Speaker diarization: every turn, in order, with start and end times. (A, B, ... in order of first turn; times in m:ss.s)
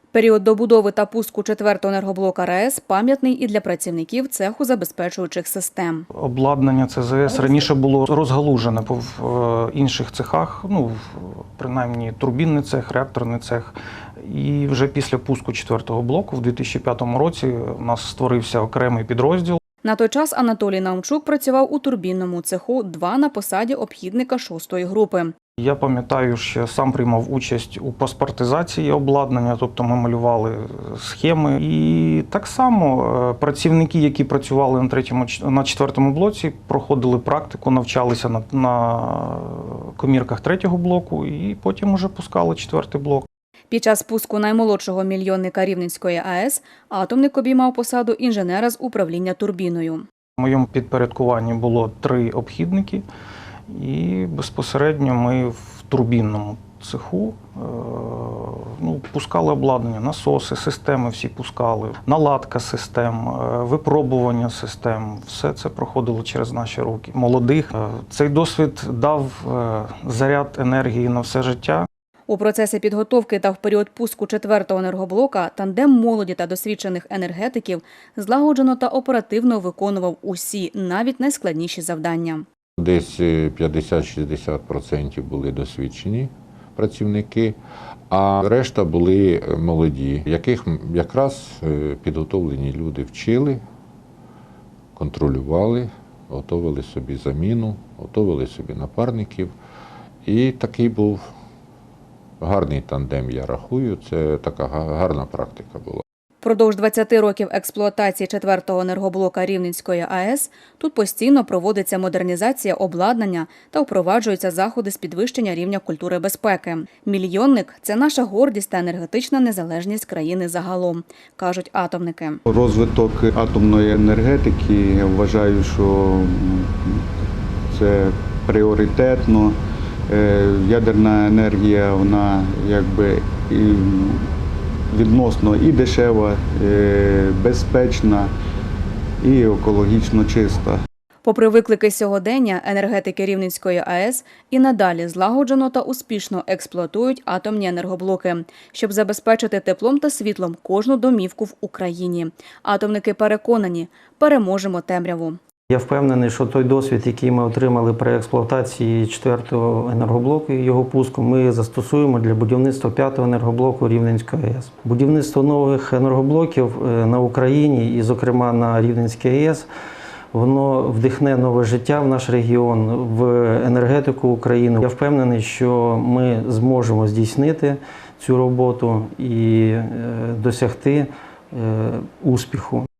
0:00.1-0:06.0 A
0:06.1-0:19.6 B
0:19.8-0:25.3 A
0:25.6-0:43.3 B
0:43.7-0:50.1 A
0:50.4-0:53.0 B
0:53.7-1:11.9 B
1:12.3-1:22.5 A
1:22.8-1:27.6 C
1:28.1-1:33.6 C
1:35.0-1:39.5 C
1:40.3-1:41.2 C
1:42.4-1:46.0 C
1:46.4-2:02.4 A
2:02.5-2:07.0 D
2:07.7-2:09.6 D
2:10.1-2:14.3 D
2:14.9-2:18.3 D
2:19.2-2:20.8 D
2:21.2-2:35.4 A
2:35.7-2:49.7 E
2:50.3-3:02.9 E